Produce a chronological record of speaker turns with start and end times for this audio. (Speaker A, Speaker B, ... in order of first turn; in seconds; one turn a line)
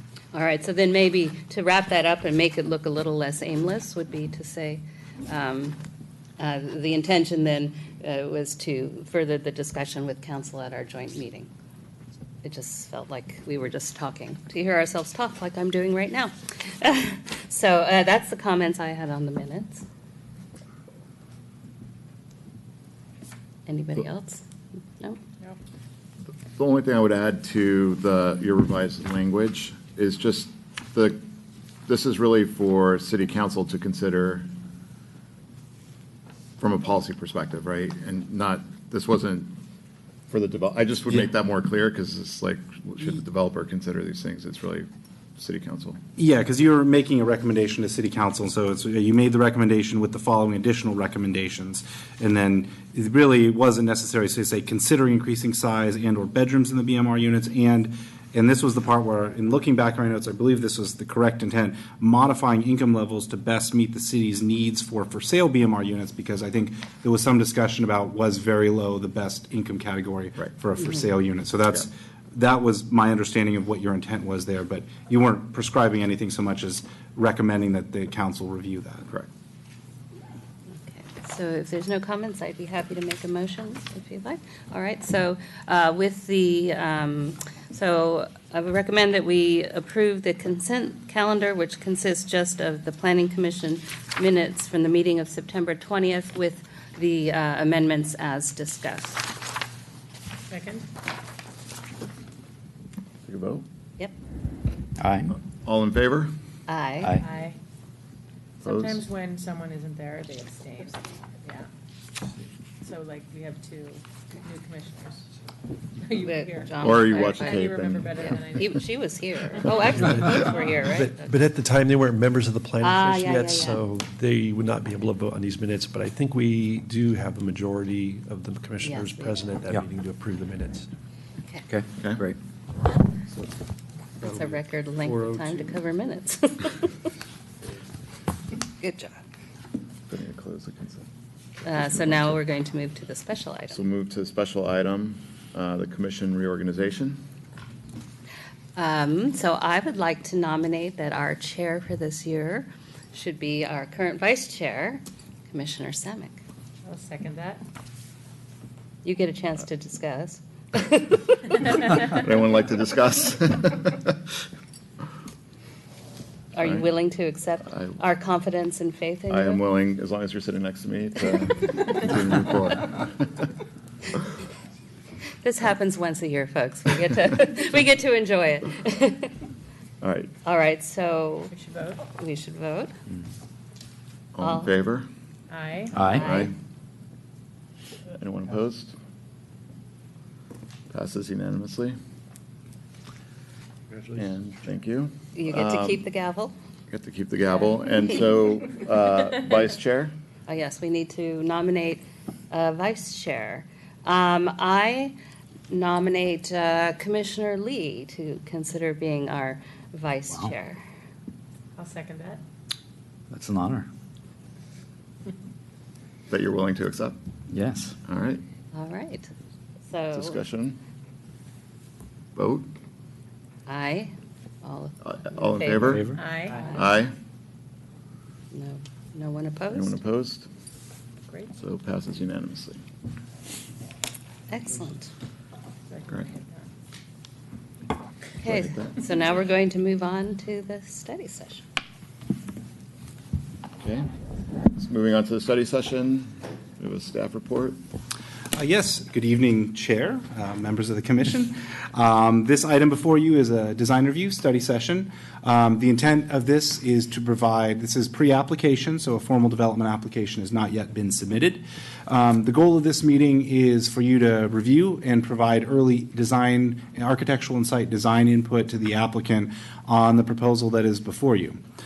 Speaker A: 0.3-5.8
Speaker A: 6.4-11.5
Speaker A: 12.4-19.8
Speaker A: 23.6-24.4
Speaker B: 26.5-31.2
Speaker B: 31.9-34.5
Speaker B: 36.6-39.5
Speaker B: 40.3-46.0
Speaker C: 46.1-79.1
Speaker A: 80.8-99.3
Speaker D: 100.5-100.8
Speaker B: 103.2-103.6
Speaker E: 105.0-105.3
Speaker B: 105.3-106.3
Speaker A: 106.7-107.2
Speaker D: 107.2-107.6
Speaker D: 108.6-111.7
Speaker B: 108.6-109.0
Speaker D: 112.8-115.2
Speaker D: 116.0-118.8
Speaker A: 116.2-117.7
Speaker B: 116.8-118.4
Speaker A: 118.5-121.3
Speaker F: 120.0-130.9
Speaker D: 120.1-120.3
Speaker A: 122.8-123.8
Speaker A: 128.8-129.5
Speaker A: 131.4-131.7
Speaker E: 131.7-132.4
Speaker F: 134.2-135.8
Speaker A: 134.2-136.9
Speaker A: 138.8-139.2
Speaker B: 140.1-141.1
Speaker A: 141.6-143.8
Speaker B: 143.7-147.2
Speaker A: 148.8-156.4
Speaker D: 156.8-157.6
Speaker A: 159.0-161.6
Speaker B: 162.0-164.1
Speaker A: 166.5-169.6
Speaker B: 167.7-167.9
Speaker B: 169.3-173.3
Speaker A: 175.4-179.3
Speaker B: 180.0-180.3
Speaker A: 180.4-181.5
Speaker D: 181.5-182.1
Speaker A: 182.2-182.9
Speaker B: 184.3-185.1
Speaker A: 184.4-184.7
Speaker D: 185.5-186.0
Speaker E: 185.9-186.2
Speaker A: 186.0-186.5
Speaker B: 186.1-186.5
Speaker B: 188.1-188.9
Speaker B: 190.9-191.9
Speaker F: 193.9-194.2
Speaker B: 194.2-196.0
Speaker A: 195.3-196.5
Speaker B: 196.9-200.1
Speaker A: 200.5-205.1
Speaker A: 205.7-210.8
Speaker D: 211.8-212.4
Speaker E: 213.3-213.9
Speaker B: 216.3-217.2
Speaker E: 217.5-217.9
Speaker B: 218.0-218.4
Speaker A: 218.7-219.3
Speaker A: 219.9-220.4
Speaker B: 220.1-220.8
Speaker B: 222.3-222.7
Speaker A: 223.7-226.8
Speaker B: 225.0-226.1
Speaker E: 225.6-226.2
Speaker D: 226.1-226.8
Speaker B: 226.7-227.1
Speaker A: 228.5-230.0
Speaker B: 229.7-230.5
Speaker D: 231.3-231.5
Speaker B: 231.6-232.8
Speaker A: 234.5-235.1
Speaker D: 235.9-236.7
Speaker A: 238.4-241.6
Speaker B: 238.4-239.0
Speaker B: 243.8-244.1
Speaker B: 244.8-247.8
Speaker C: 248.5-271.6